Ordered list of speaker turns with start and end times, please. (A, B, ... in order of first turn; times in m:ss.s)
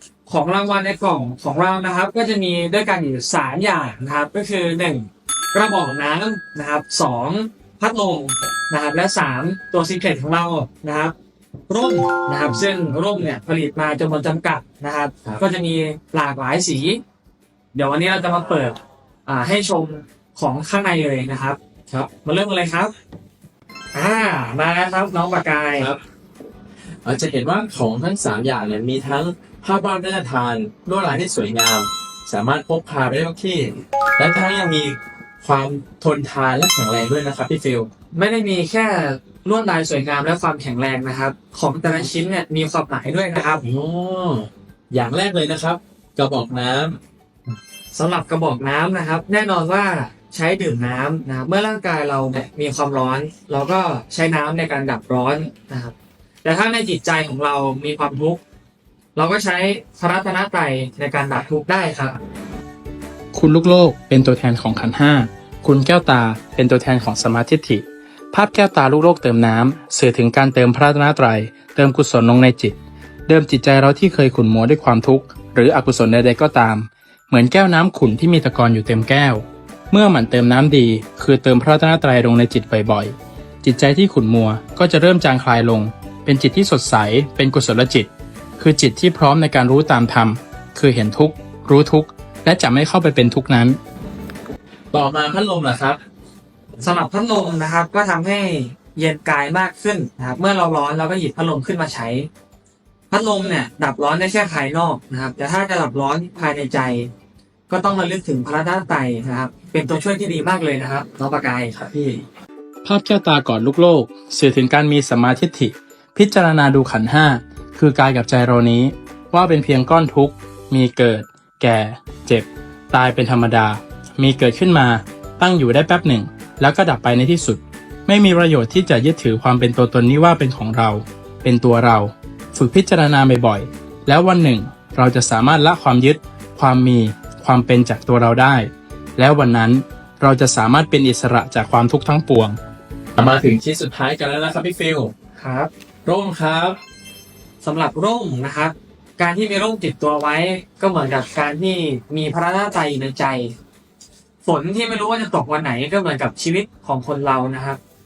0:00.3-0:11.1 A
0:11.7-0:17.0 A
0:17.8-0:21.6 A
0:22.2-0:22.9 A
0:24.0-0:25.9 A
0:27.0-0:37.9 B
0:38.1-0:43.6 A
0:43.6-0:47.0 B
0:47.9-0:58.4 A
0:59.2-1:02.2 A
1:03.3-1:12.8 C
1:13.3-1:33.8 C
1:34.9-1:36.0 B
1:36.8-1:42.3 A
1:43.1-1:47.1 A
1:47.7-1:52.2 A
1:52.8-2:22.6 C
2:23.2-2:25.1 B
2:25.4-2:25.7 A
2:26.1-2:26.8 B
2:27.6-2:33.5 A
2:34.4-2:37.8 A